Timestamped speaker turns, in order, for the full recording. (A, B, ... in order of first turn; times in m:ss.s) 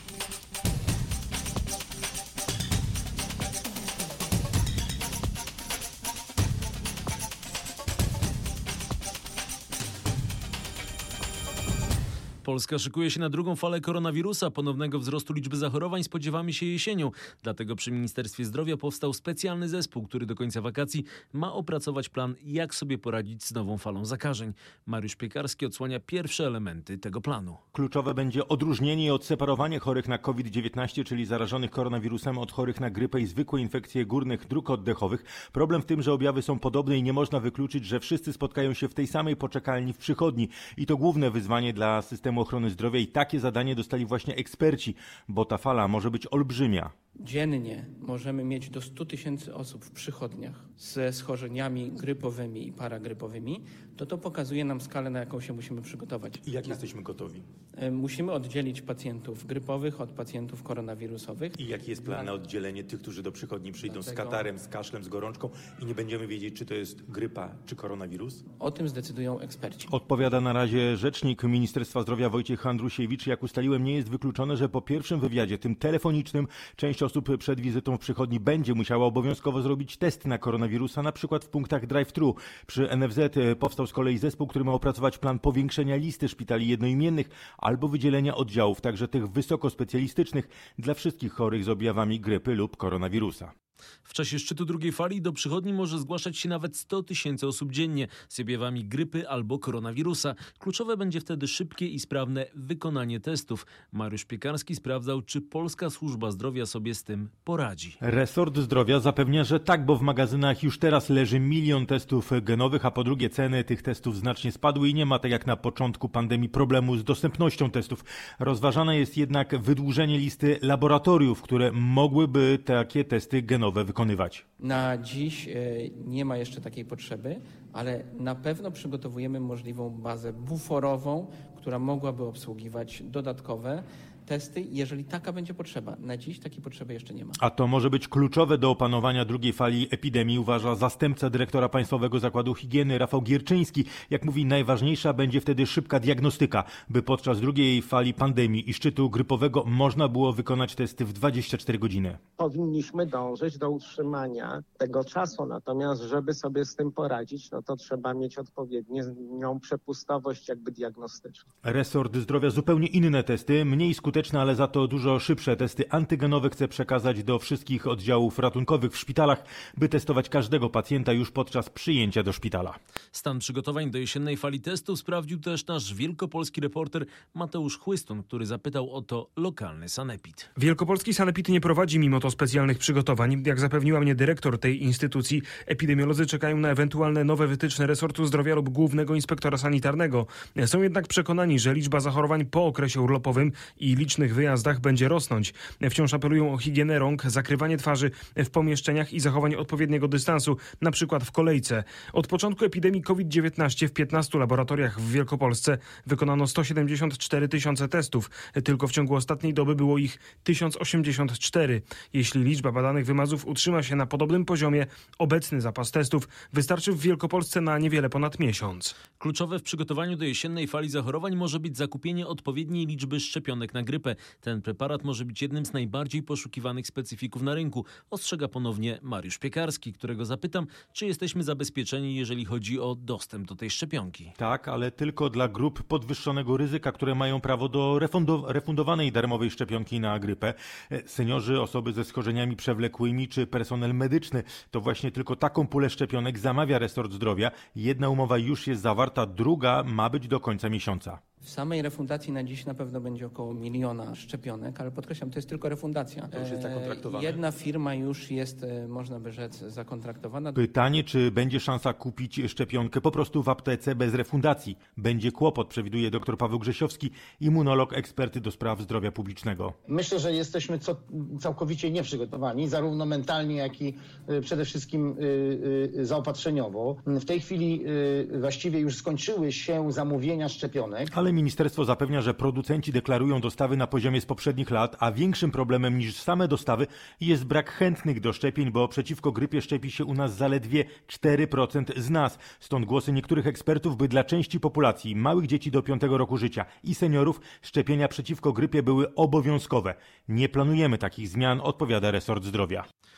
0:12.4-0:27.6 A
0:27.7-0:46.9 B
0:47.2-0:56.8 C
0:56.4-0:57.5 B
0:57.8-1:02.3 C
1:01.5-1:08.4 B
1:03.8-1:04.5 C
1:08.6-1:09.9 C
1:09.9-1:33.5 B
1:34.0-1:48.0 A
1:48.0-2:04.4 B
2:04.6-2:17.4 C
2:17.4-2:32.2 B
2:32.4-2:41.5 D
2:41.6-2:52.8 B
2:53.1-3:00.5 A
3:00.6-3:39.0 E
3:39.2-3:54.3 A
3:54.4-4:11.2 B
4:11.4-4:20.6 C
4:16.3-4:17.4 B
4:20.5-4:29.8 B
4:29.9-4:41.1 F
4:41.1-5:02.8 B